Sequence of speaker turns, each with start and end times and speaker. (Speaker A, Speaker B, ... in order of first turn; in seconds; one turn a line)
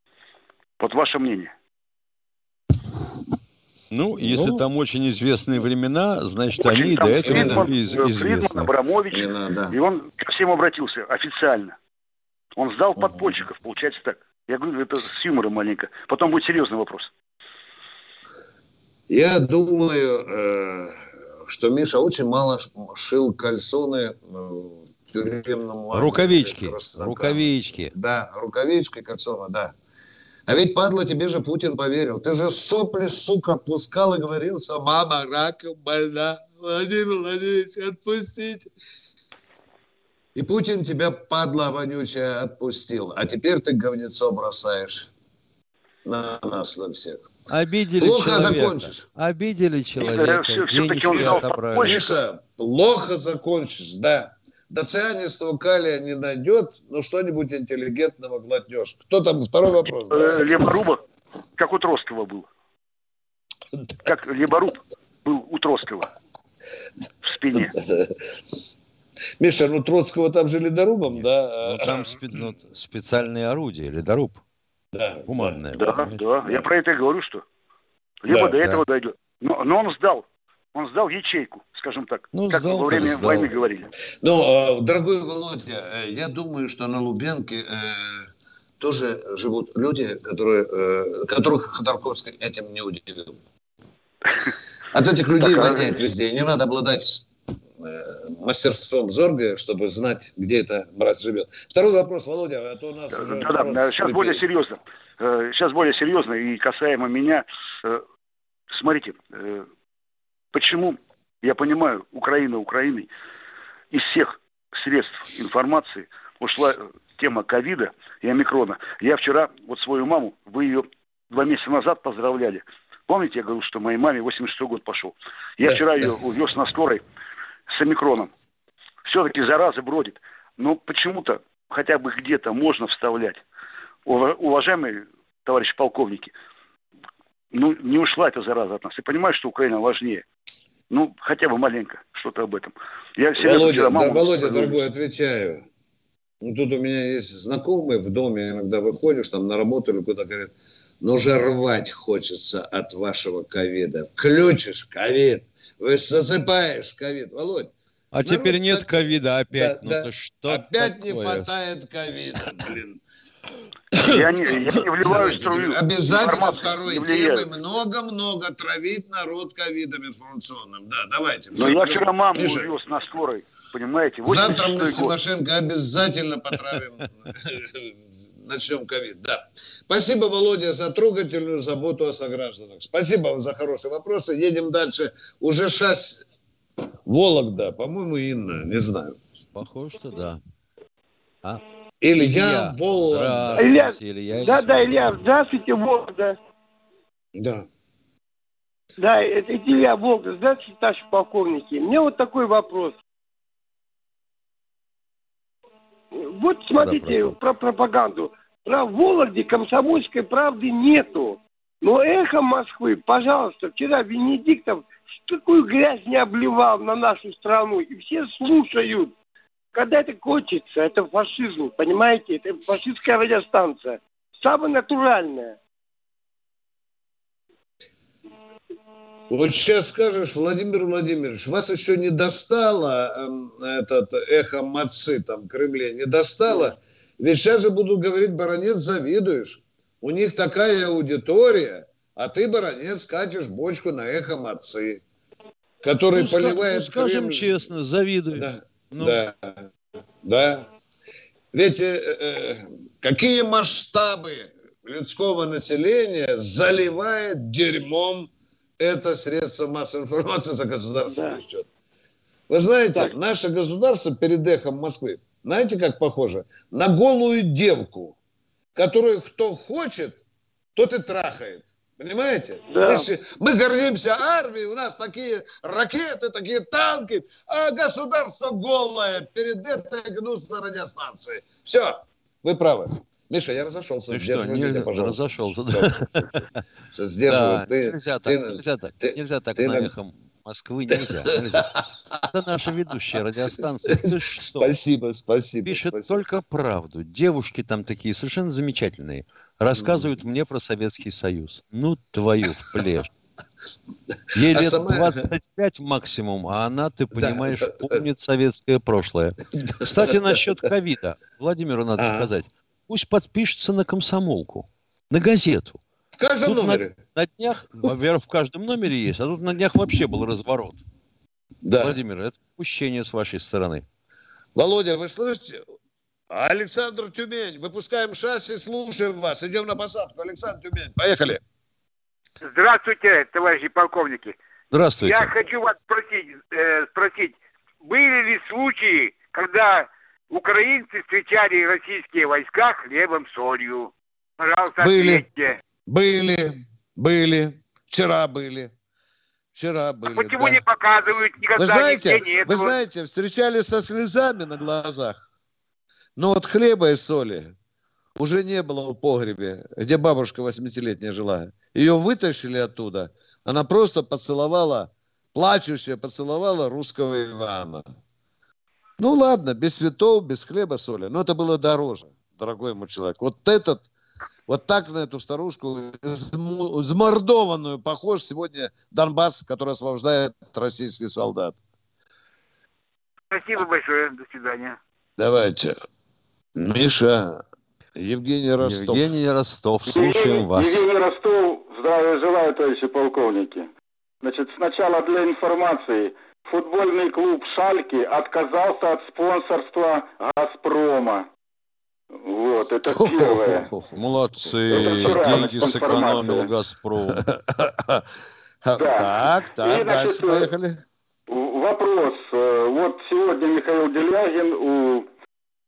Speaker A: 0.8-1.5
Speaker B: 3.9-8.7
Speaker C: 4.2-4.6
Speaker A: 6.5-11.8
Speaker C: 7.2-7.7
Speaker C: 9.1-9.7
Speaker A: 12.6-17.1
Speaker C: 19.1-29.7
Speaker B: 25.9-27.9
Speaker C: 30.5-38.7
Speaker C: 40.3-45.1
Speaker C: 46.0-47.3
Speaker B: 47.5-52.0
Speaker C: 48.0-49.0
Speaker A: 50.0-52.2
Speaker C: 51.1-60.6
Speaker A: 59.9-61.0
Speaker A: 61.6-62.5
Speaker A: 64.0-66.1
Speaker A: 67.2-67.7
Speaker C: 67.5-68.2
Speaker C: 69.4-72.2
Speaker B: 71.6-74.4
Speaker C: 74.9-75.6
Speaker B: 75.3-76.2
Speaker A: 75.7-77.4
Speaker A: 78.2-83.9
Speaker B: 82.3-83.5
Speaker C: 84.2-88.3
Speaker C: 88.8-93.4
Speaker C: 94.9-97.3
Speaker A: 95.4-95.9
Speaker C: 97.8-104.4
Speaker A: 103.1-108.0
Speaker A: 108.7-109.7
Speaker A: 110.5-113.1
Speaker A: 113.9-127.0
Speaker C: 125.7-126.0
Speaker A: 127.7-128.3
Speaker A: 129.1-133.4
Speaker A: 134.1-136.3
Speaker A: 137.5-140.2
Speaker A: 140.9-144.8
Speaker C: 143.4-145.6
Speaker C: 146.4-163.0
Speaker B: 158.1-161.5
Speaker C: 163.9-172.7
Speaker A: 164.0-167.5
Speaker A: 171.5-175.1
Speaker C: 174.2-186.2
Speaker C: 187.1-189.2
Speaker B: 189.5-190.4
Speaker C: 192.0-193.7
Speaker B: 192.2-194.9
Speaker D: 193.6-196.3
Speaker C: 197.3-197.7
Speaker D: 199.0-202.9
Speaker D: 206.2-219.1
Speaker B: 206.8-207.4
Speaker D: 219.7-225.6
Speaker C: 229.3-245.0
Speaker C: 245.8-247.6
Speaker B: 246.1-249.2
Speaker C: 248.3-249.7
Speaker C: 250.2-250.7
Speaker C: 251.5-261.6
Speaker D: 261.1-261.4
Speaker C: 262.5-268.1
Speaker C: 268.7-270.2
Speaker C: 270.7-289.9
Speaker D: 272.7-273.1
Speaker B: 284.1-286.3
Speaker B: 287.3-291.7
Speaker B: 292.2-294.8
Speaker C: 293.6-296.2
Speaker B: 295.6-303.1
Speaker C: 299.7-300.1
Speaker B: 304.3-315.8
Speaker C: 304.5-305.3
Speaker C: 307.1-307.8
Speaker C: 309.6-310.4
Speaker C: 312.0-312.3
Speaker C: 316.2-316.9
Speaker B: 316.4-320.8
Speaker C: 321.6-322.0
Speaker B: 321.8-323.8
Speaker C: 324.5-325.6
Speaker C: 326.3-331.4
Speaker E: 332.4-334.3
Speaker B: 334.7-335.4
Speaker E: 335.0-345.6
Speaker C: 344.8-345.2
Speaker C: 345.9-348.7
Speaker C: 349.5-350.6
Speaker E: 350.1-352.7
Speaker C: 351.6-355.2
Speaker C: 356.1-357.5
Speaker C: 358.1-367.8
Speaker C: 369.0-373.9
Speaker C: 374.5-381.6
Speaker E: 383.3-384.8
Speaker C: 385.2-385.7
Speaker C: 386.6-387.4
Speaker C: 387.9-389.2
Speaker B: 388.6-390.8
Speaker F: 389.9-393.7
Speaker F: 394.2-401.3
Speaker F: 402.2-403.7
Speaker C: 402.9-406.5
Speaker B: 403.9-407.2
Speaker F: 404.7-406.5
Speaker C: 407.1-408.1
Speaker C: 408.6-410.8
Speaker F: 408.8-410.5
Speaker F: 411.3-415.1